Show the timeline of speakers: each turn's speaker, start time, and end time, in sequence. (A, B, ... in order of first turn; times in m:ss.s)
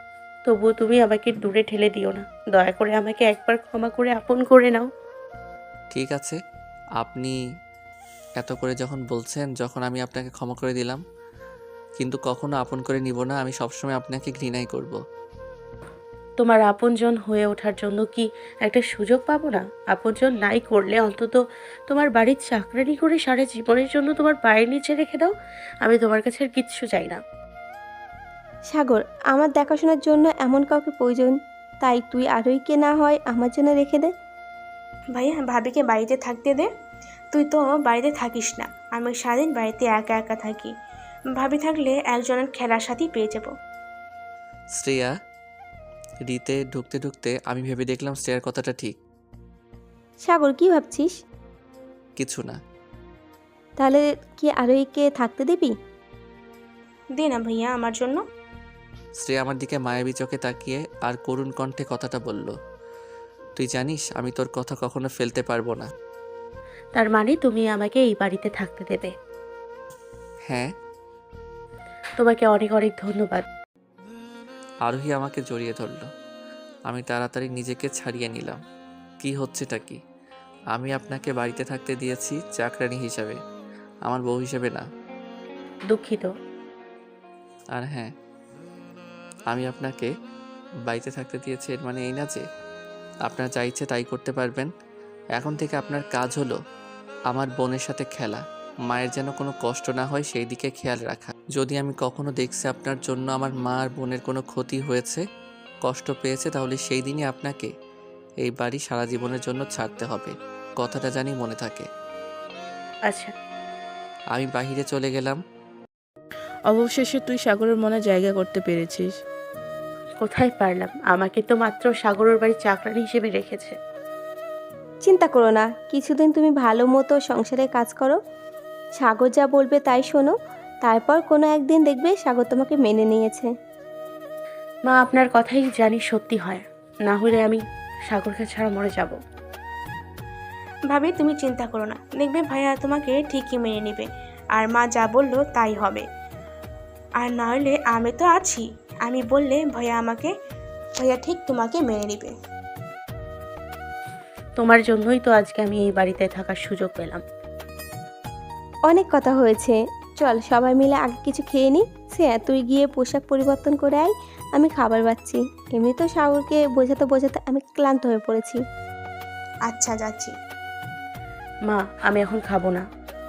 0:00.4-0:04.9 A
0:05.9-0:06.4 B
0:07.0-0:07.4 B
0:08.4-0:11.0 B
0:12.0-0:15.0 B
0:16.4-0:25.3 A
0:25.8-0:27.2 A
0:28.7-0:34.1 C
0:35.2-0:36.7 D
0:37.3-0:40.7 D
0:41.3-0:43.5 D
0:44.8-0:45.1 B
0:46.3-0:49.0 B
0:50.2-0:51.1 C
0:52.2-0:52.6 B
0:53.8-0:55.7 C
0:57.2-0:58.2 D
0:59.2-1:02.5 B
1:03.6-1:05.9 B
1:07.0-1:09.1 A
1:12.2-1:13.4 A
1:14.8-1:16.1 B
1:16.9-1:18.6 B
1:19.2-1:20.0 B
1:20.7-1:23.4 B
1:24.1-1:24.8 B
1:25.9-1:26.3 A
1:27.7-1:28.1 B
1:29.5-1:30.1 B
1:30.9-1:32.4 B
1:33.3-1:34.7 B
1:35.4-1:36.6 B
1:37.3-1:45.2 B
1:45.8-1:47.7 B
1:48.4-1:51.9 B
1:54.3-1:55.4 B
1:56.7-1:59.2 E
2:00.2-2:03.8 A
2:05.0-2:08.2 C
2:09.0-2:13.5 C
2:14.9-2:19.2 A
2:20.9-2:26.0 D
2:27.2-2:30.3 D
2:31.0-2:32.3 D
2:34.6-2:37.2 A
2:38.9-2:48.6 C
2:49.6-2:50.3 D
2:51.7-2:52.8 A